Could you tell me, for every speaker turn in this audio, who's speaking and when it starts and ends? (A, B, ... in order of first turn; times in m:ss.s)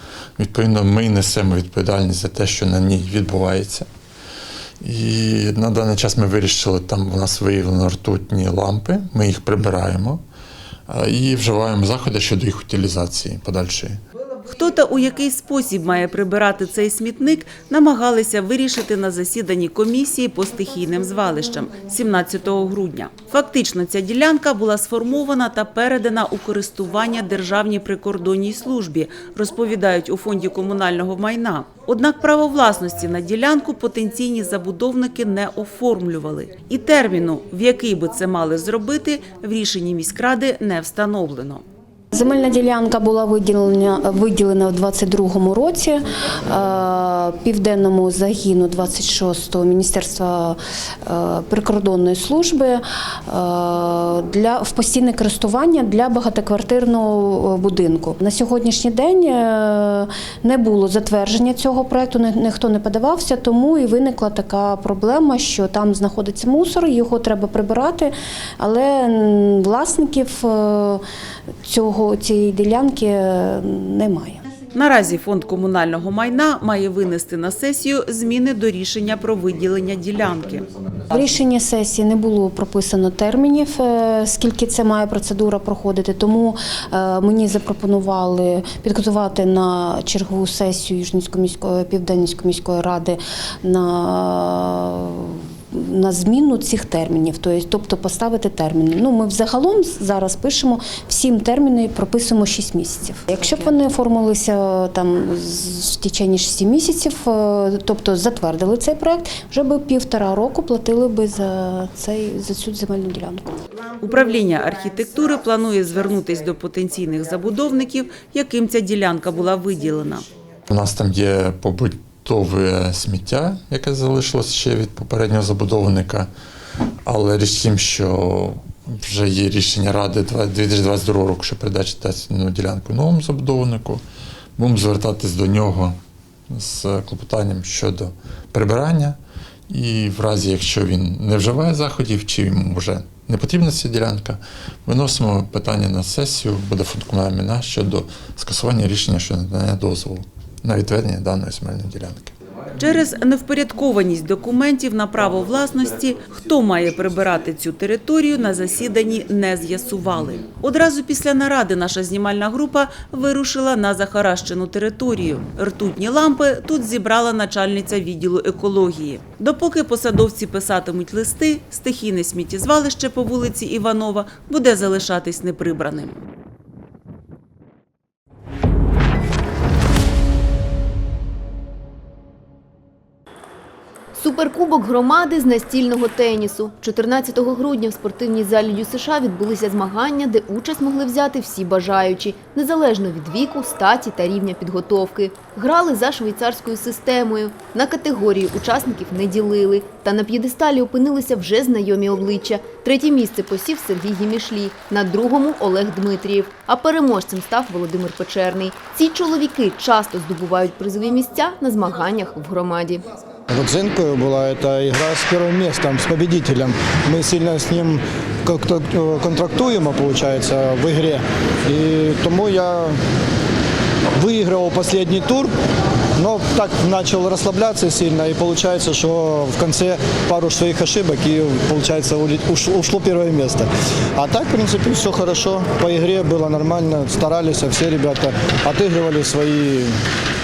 0:00.4-0:03.9 A
0:04.8-0:10.2 A
0:10.9-0:14.0 A
0:14.4-0:41.6 B
0:42.1-1:11.0 C
1:11.7-1:14.4 C
1:14.7-1:20.7 B
1:21.1-1:53.5 C
1:54.0-2:00.3 B
2:00.7-2:06.3 A
2:07.1-2:14.0 A
2:14.6-2:16.0 A
2:16.5-2:19.2 A
2:19.7-2:32.3 A
2:32.8-2:56.2 B
3:04.2-3:33.0 D
3:33.5-3:43.0 E
3:44.2-3:45.5 E
3:46.2-4:00.0 E